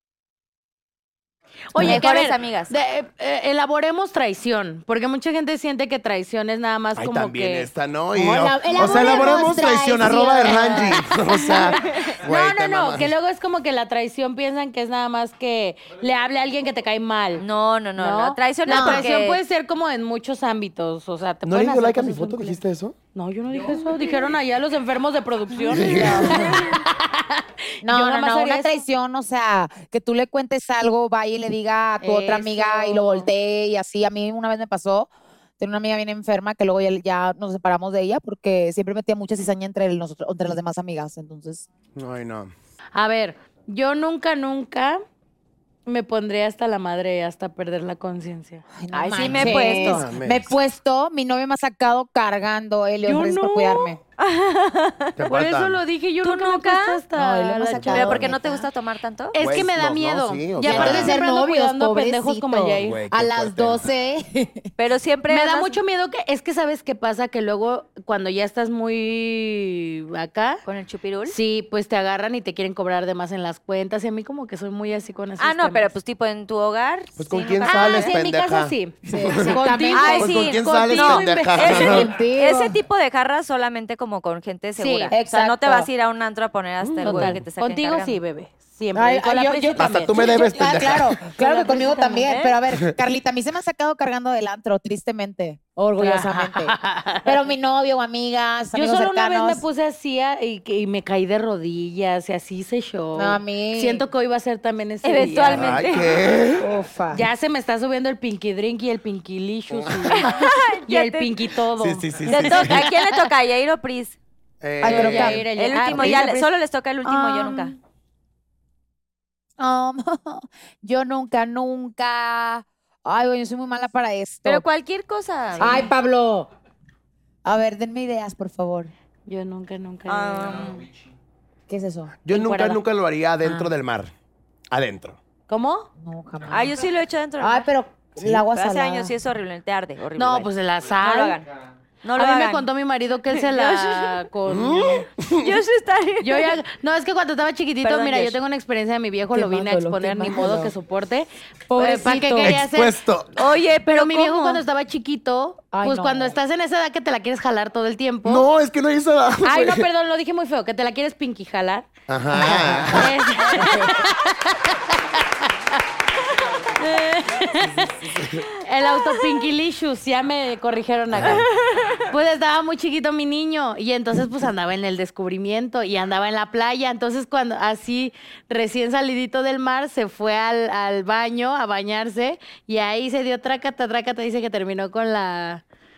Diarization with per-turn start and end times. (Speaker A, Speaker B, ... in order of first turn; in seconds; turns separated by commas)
Speaker A: 1.7-7.7, Speaker B: 1.8-2.0, Speaker C: 1.8-2.7, Speaker D: 7.0-13.1, Speaker B: 8.1-11.0, Speaker A: 8.9-9.4, Speaker A: 10.5-11.6, Speaker C: 11.5-12.1, Speaker A: 12.2-17.4, Speaker C: 17.4-19.4, Speaker A: 18.0-22.6, Speaker B: 18.7-19.1, Speaker D: 21.4-22.9, Speaker A: 23.1-28.8, Speaker D: 25.7-26.6, Speaker B: 25.9-26.4, Speaker B: 27.8-41.6, Speaker A: 32.0-33.3, Speaker D: 42.0-42.5, Speaker A: 42.9-45.0, Speaker A: 45.9-48.6, Speaker B: 48.8-54.0, Speaker C: 48.9-50.0, Speaker D: 49.2-50.5, Speaker A: 53.0-53.9, Speaker C: 54.2-55.2, Speaker D: 55.2-55.8, Speaker A: 55.2-58.2, Speaker C: 56.2-57.0, Speaker B: 57.1-58.6, Speaker D: 57.8-58.3, Speaker C: 57.9-59.4, Speaker A: 59.3-63.0, Speaker D: 59.4-61.1, Speaker B: 60.6-64.7, Speaker D: 62.8-63.9, Speaker C: 64.8-65.8, Speaker A: 65.3-70.6, Speaker C: 70.6-71.3, Speaker A: 71.2-75.9, Speaker C: 75.4-78.1, Speaker D: 77.2-79.6, Speaker A: 77.6-82.0, Speaker B: 79.0-80.5, Speaker C: 79.9-88.2, Speaker D: 80.1-82.1, Speaker B: 81.6-82.8, Speaker A: 84.8-85.1, Speaker B: 85.1-85.9, Speaker D: 86.8-87.4, Speaker A: 87.0-92.5, Speaker B: 88.9-99.6, Speaker D: 89.8-91.2, Speaker A: 96.0-97.4, Speaker A: 98.7-105.8, Speaker B: 103.1-104.0, Speaker C: 105.0-106.1, Speaker D: 105.5-106.7, Speaker B: 106.6-107.3, Speaker A: 107.1-113.2, Speaker D: 109.7-110.2, Speaker C: 110.1-111.5, Speaker D: 111.8-112.8, Speaker C: 112.2-114.2, Speaker D: 114.6-115.5, Speaker B: 114.8-115.4, Speaker A: 114.8-116.5, Speaker C: 114.9-117.7, Speaker B: 117.0-117.8, Speaker B: 119.6-124.6, Speaker C: 124.4-125.9, Speaker B: 125.6-126.5, Speaker A: 125.6-125.9, Speaker B: 127.4-128.9, Speaker A: 129.3-130.7, Speaker C: 130.1-130.8, Speaker B: 131.7-132.2, Speaker D: 132.2-134.1, Speaker A: 132.3-132.8, Speaker D: 134.7-135.2, Speaker A: 135.5-135.9, Speaker B: 136.0-136.8, Speaker C: 136.5-137.7, Speaker B: 137.4-139.1, Speaker C: 138.5-141.5, Speaker A: 140.2-141.4, Speaker C: 142.0-142.7, Speaker A: 142.2-145.1, Speaker C: 143.3-144.3, Speaker D: 144.4-145.5, Speaker C: 145.4-146.6, Speaker A: 146.2-153.0, Speaker C: 147.8-148.4, Speaker B: 149.3-150.7, Speaker B: 151.7-152.6, Speaker D: 152.4-153.3, Speaker C: 153.3-154.6, Speaker A: 153.8-158.4, Speaker B: 155.7-156.3, Speaker D: 158.2-159.9, Speaker A: 159.4-161.9, Speaker D: 162.1-163.2, Speaker B: 162.3-163.0, Speaker A: 162.9-165.8, Speaker B: 163.6-163.9, Speaker A: 166.6-171.5, Speaker D: 167.7-168.5, Speaker D: 171.1-171.4, Speaker C: 171.2-172.0, Speaker A: 172.1-185.6